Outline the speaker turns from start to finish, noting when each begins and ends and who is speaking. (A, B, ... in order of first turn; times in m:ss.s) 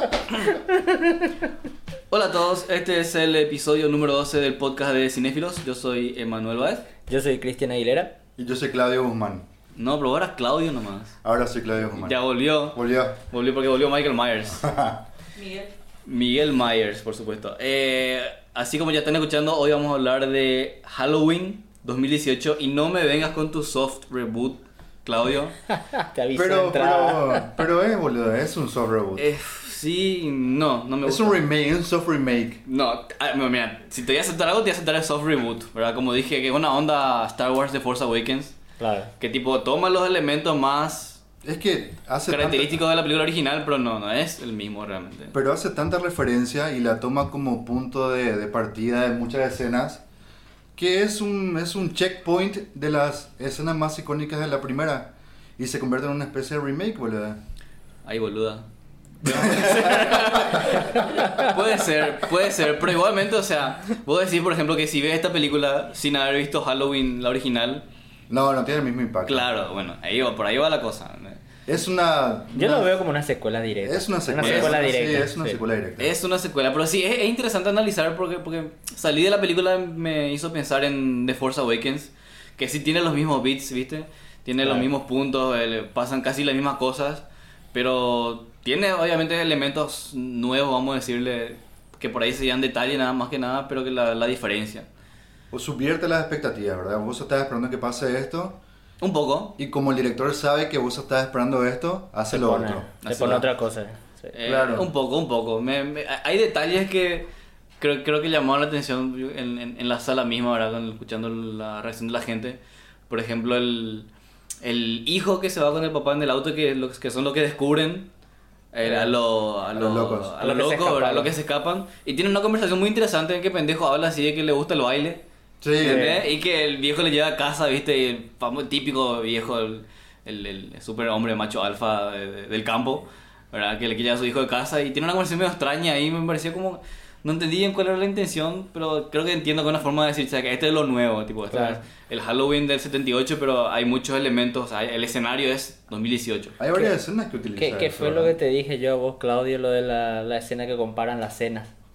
0:00.5-0:01.3 A
0:02.1-0:06.8 B
0:07.1-0:08.1 A
0:08.4-0:09.4 C
0:09.7-0:11.1 B
0:11.2-0:13.2 C
0:11.9-0:14.6 B
0:14.5-0:15.0 C
0:16.0-0:25.5 B
0:25.7-0:27.5 A
0:26.3-0:29.2 C
0:29.2-0:31.4 B
0:31.0-0:32.6 C
0:32.6-0:38.6 B
0:38.8-0:39.1 A
0:39.2-0:41.2 B
0:41.4-0:42.8 C
0:42.3-0:45.3 B
0:45.3-0:50.0 C
0:50.7-0:57.4 C
0:58.0-0:58.6 B
0:59.2-1:07.8 B
0:59.2-1:01.3 C
1:00.9-1:01.5 A
1:08.3-1:09.4 C
1:09.2-1:11.4 B
1:11.7-1:12.9 C
1:12.5-1:15.6 A
1:13.8-1:16.1 C
1:14.4-1:14.7 B
1:16.0-1:34.8 B
1:24.6-1:24.9 A
1:35.5-1:38.6 C
1:39.0-1:39.5 B
1:39.6-1:43.2 C
1:42.3-1:44.3 A
1:43.0-1:43.4 B
1:44.3-1:47.2 B
1:44.4-1:44.9 C
1:47.8-1:52.6 B
1:53.1-1:54.1 B
1:54.6-1:58.1 B
1:58.7-2:05.2 B
1:58.8-1:59.1 A
1:59.7-2:00.4 C
2:00.4-2:01.3 A
2:05.6-2:06.2 C
2:05.8-2:26.6 B
2:05.8-2:06.1 A
2:21.5-2:21.8 A
2:26.6-2:28.3 C
2:27.6-2:31.7 A